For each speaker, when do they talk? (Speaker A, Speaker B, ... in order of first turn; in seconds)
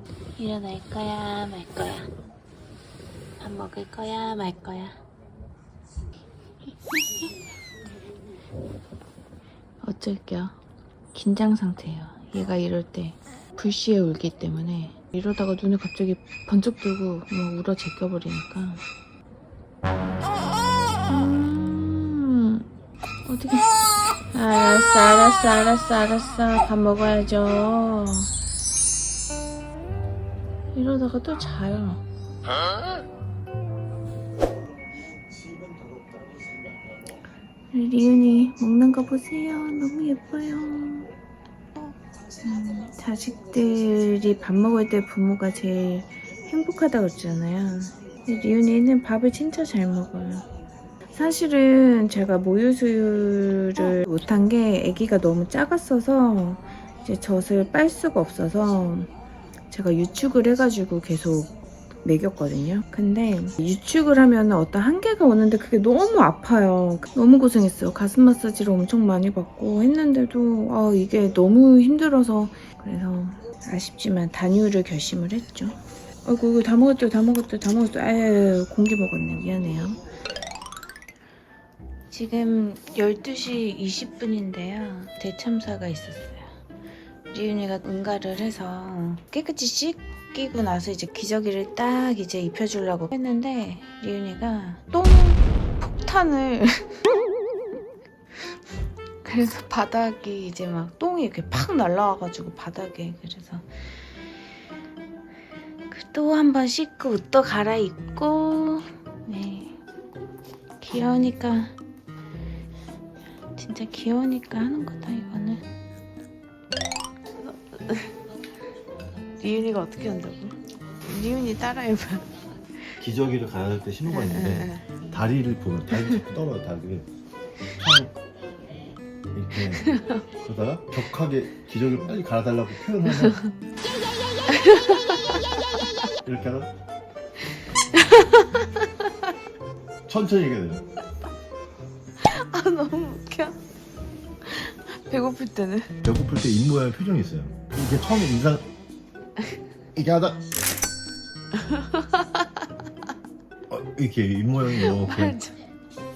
Speaker A: 0.4-2.1, 3.4-5.0, 9.8-10.6, 11.1-18.8, 21.1-22.6, 23.2-23.7, 24.3-28.3, 30.7-32.0, 37.7-41.1, 42.4-50.5, 51.1-59.1, 59.7-80.0, 82.1-86.5, 87.3-97.0, 99.2-104.0, 105.9-109.8, 110.8-111.7, 113.5-115.7, 117.4-118.1, 119.4-122.3, 124.1-124.9, 138.1-138.4, 142.2-143.6, 144.4-145.9, 151.7-152.0, 154.7-155.6
Speaker B: 123.0-127.1, 127.8-128.1, 129.3-129.9, 130.4-133.4, 136.2-136.7, 140.1-140.8, 146.0-148.7, 149.9-150.4, 153.7-155.4